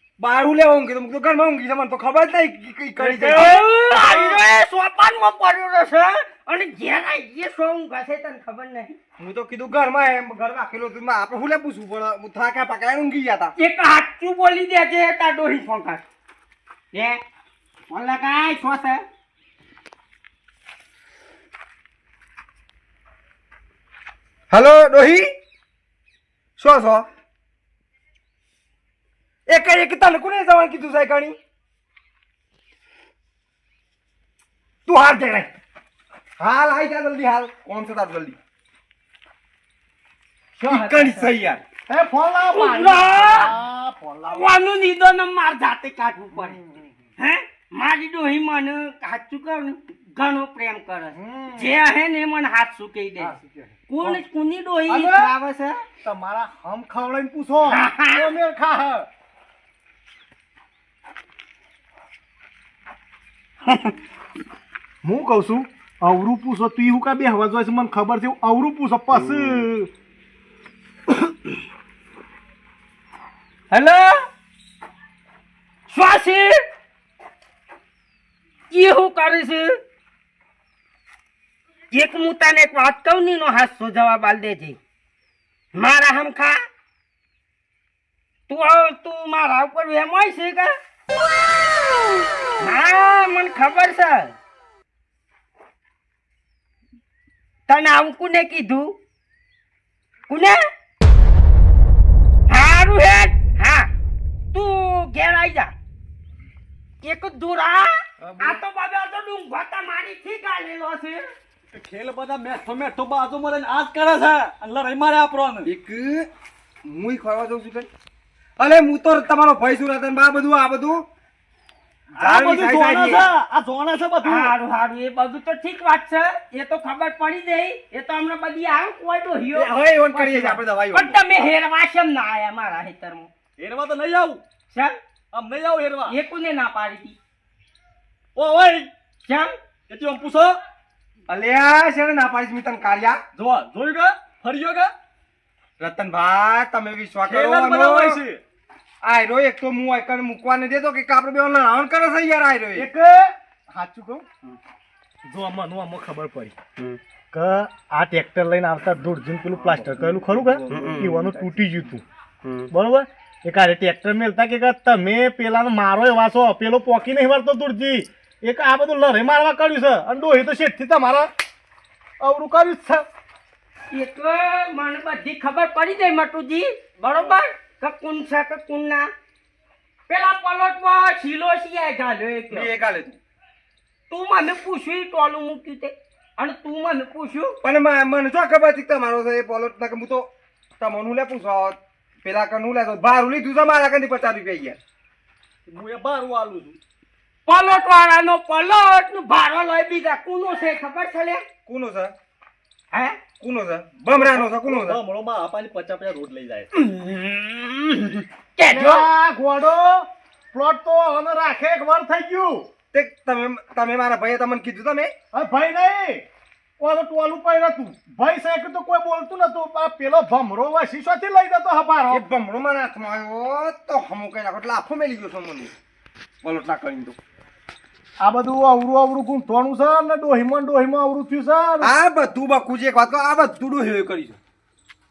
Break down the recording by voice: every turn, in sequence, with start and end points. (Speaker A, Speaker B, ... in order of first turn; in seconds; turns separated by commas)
Speaker A: 0.2-3.6, Speaker B: 3.1-4.4, Speaker C: 3.2-9.0, Speaker A: 9.2-13.6, Speaker C: 13.6-16.0, Speaker C: 16.9-17.2, Speaker C: 17.9-19.0, Speaker A: 24.5-25.3, Speaker A: 26.6-27.1, Speaker A: 29.5-31.4, Speaker A: 34.9-35.5, Speaker A: 36.4-38.4, Speaker C: 40.6-41.3, Speaker A: 40.6-41.6, Speaker B: 41.9-44.5, Speaker C: 42.5-43.5, Speaker C: 44.3-46.6, Speaker B: 46.6-46.9, Speaker C: 47.2-53.4, Speaker B: 51.1-51.7, Speaker B: 53.2-54.2, Speaker C: 53.9-55.8, Speaker B: 54.9-55.3, Speaker B: 56.0-59.1, Speaker C: 57.7-58.3, Speaker C: 63.7-63.9, Speaker B: 65.0-69.9, Speaker C: 73.7-74.2, Speaker C: 75.9-76.6, Speaker C: 78.7-79.8, Speaker C: 81.9-84.8, Speaker C: 85.7-86.6, Speaker C: 88.5-90.7, Speaker C: 92.6-94.3, Speaker C: 97.7-99.0, Speaker C: 100.3-100.6, Speaker C: 102.5-103.9, Speaker C: 104.5-105.7, Speaker C: 107.0-111.3, Speaker A: 108.2-108.6, Speaker D: 111.7-115.7, Speaker A: 115.7-116.3, Speaker A: 116.8-117.9, Speaker A: 118.6-121.0, Speaker A: 122.2-123.3, Speaker D: 122.2-124.5, Speaker C: 124.2-133.3, Speaker A: 129.5-131.2, Speaker D: 133.6-134.4, Speaker D: 135.3-136.2, Speaker C: 136.1-137.2, Speaker D: 138.4-138.9, Speaker C: 139.2-139.5, Speaker D: 139.9-140.6, Speaker A: 141.3-143.2, Speaker D: 143.3-144.9, Speaker A: 145.8-148.2, Speaker D: 147.2-148.4, Speaker A: 149.0-152.9, Speaker B: 152.7-154.3, Speaker B: 155.3-156.6, Speaker B: 157.3-162.0, Speaker B: 162.7-171.3, Speaker B: 172.2-173.1, Speaker C: 173.9-179.1, Speaker C: 180.1-182.7, Speaker A: 182.5-183.2, Speaker C: 184.1-187.6, Speaker A: 187.6-190.3, Speaker A: 190.8-194.8, Speaker D: 195.7-196.8, Speaker C: 197.5-201.4, Speaker A: 201.7-202.1, Speaker C: 202.9-203.2, Speaker A: 203.4-205.0, Speaker D: 204.1-206.7, Speaker C: 206.7-209.1, Speaker B: 208.7-212.7, Speaker A: 212.9-215.1, Speaker B: 215.3-216.2, Speaker B: 216.8-222.2, Speaker A: 222.1-225.7, Speaker A: 226.4-227.2, Speaker B: 228.2-231.9, Speaker A: 231.8-234.4